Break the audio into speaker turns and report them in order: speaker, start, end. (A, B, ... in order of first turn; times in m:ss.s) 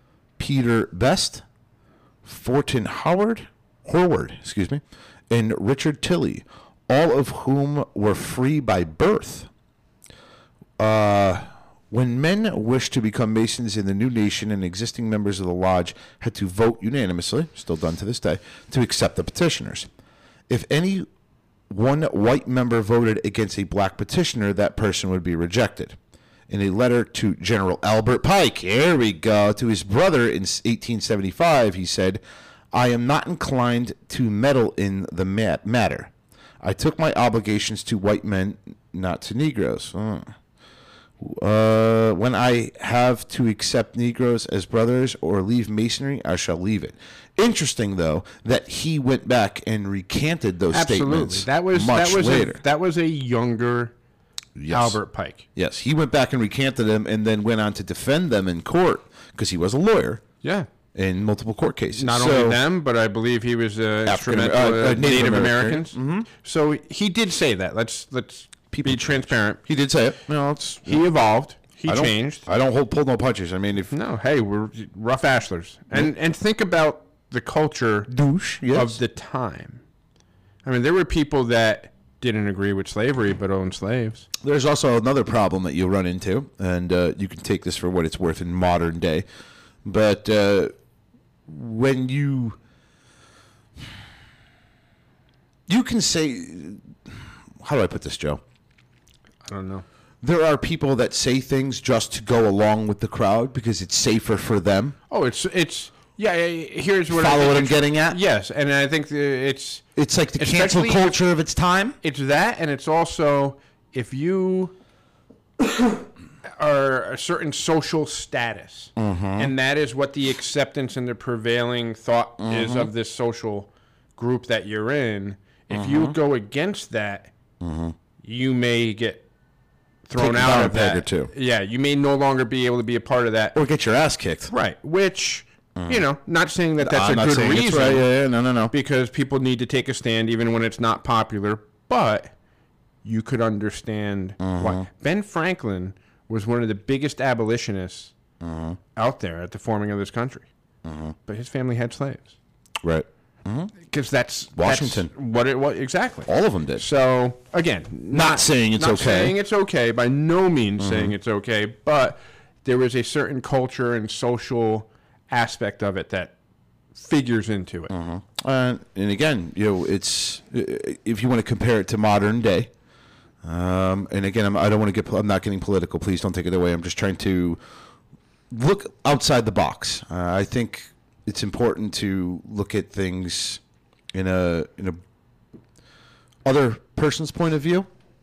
0:00.4-0:01.4 A
0:02.2-0:09.5 A
0:10.8-0:19.9 A
0:20.5-0:21.1 A
0:21.7-0:26.0 A
0:26.5-0:32.2 A
0:32.7-0:40.3 A
0:41.2-0:52.6 A
0:50.7-0:53.9 B
0:54.6-0:55.0 A
0:54.7-0:55.4 B
0:55.5-1:00.2 A
1:00.4-1:00.7 B
1:00.9-1:02.6 A
1:02.0-1:09.6 B
1:04.0-1:06.3 A
1:08.7-1:11.0 A
1:10.8-1:12.4 B
1:11.9-1:13.9 A
1:13.9-1:18.1 B
1:18.1-1:19.0 A
1:18.7-1:19.8 B
1:20.6-1:24.3 B
1:24.4-1:29.2 A
1:29.8-1:30.7 A
1:31.5-1:32.6 A
1:35.7-1:38.4 A
1:39.4-1:39.8 B
1:40.2-1:45.0 A
1:45.1-1:51.1 B
1:47.1-1:48.2 A
1:50.0-1:52.0 A
1:52.0-1:54.7 B
1:56.6-2:07.3 B
1:59.0-1:59.5 A
2:02.4-2:02.9 A
2:05.7-2:06.2 A
2:07.6-2:07.9 A
2:08.2-2:09.2 B
2:10.1-2:13.5 B
2:10.2-2:11.3 A
2:13.5-2:14.5 A
2:14.5-2:18.1 B
2:15.8-2:16.0 A
2:16.8-2:18.7 A
2:18.7-2:22.3 B
2:23.0-2:28.1 B
2:24.4-2:24.8 A
2:28.4-2:28.8 A
2:29.0-2:30.5 B
2:30.8-2:31.1 A
2:31.2-2:32.3 B
2:32.8-2:33.7 A
2:33.9-2:46.3 B
2:34.6-2:35.1 A
2:36.2-2:36.8 A
2:38.1-2:39.4 A
2:40.8-2:41.1 A
2:46.9-2:47.9 B
2:47.9-2:52.7 A
2:53.4-2:57.6 A
2:58.5-3:03.6 A
3:04.1-3:05.0 A
3:06.4-3:07.9 A